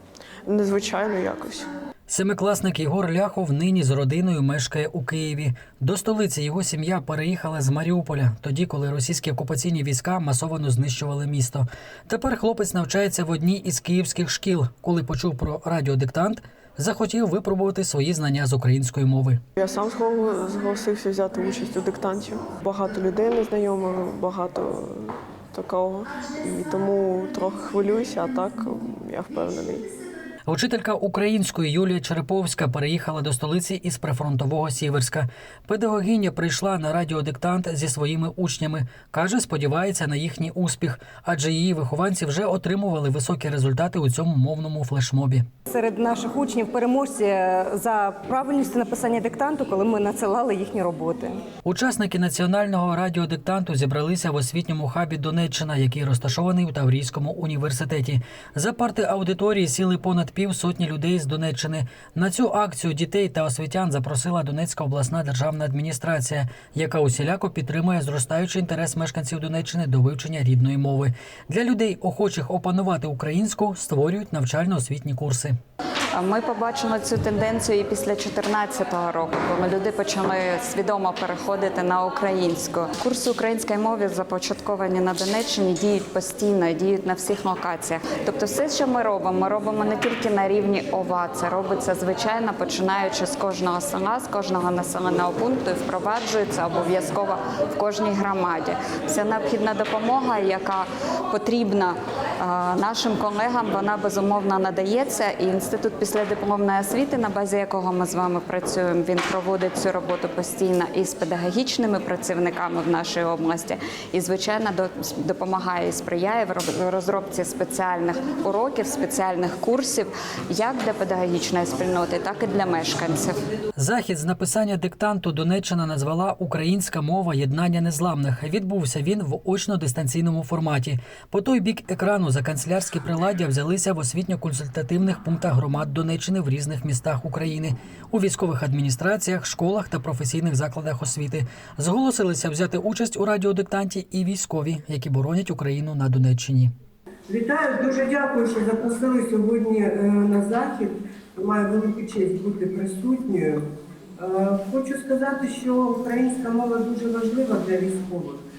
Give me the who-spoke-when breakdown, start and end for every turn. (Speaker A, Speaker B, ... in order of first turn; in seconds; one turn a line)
Speaker A: 0.5-1.7
Speaker B: 2.1-19.4
Speaker A: 19.6-29.8
Speaker B: 30.4-45.5
Speaker C: 45.7-51.4
Speaker B: 51.6-75.5
Speaker D: 76.1-123.4
Speaker B: 123.8-146.7
Speaker E: 147.3-153.6
Speaker E: 154.2-158.4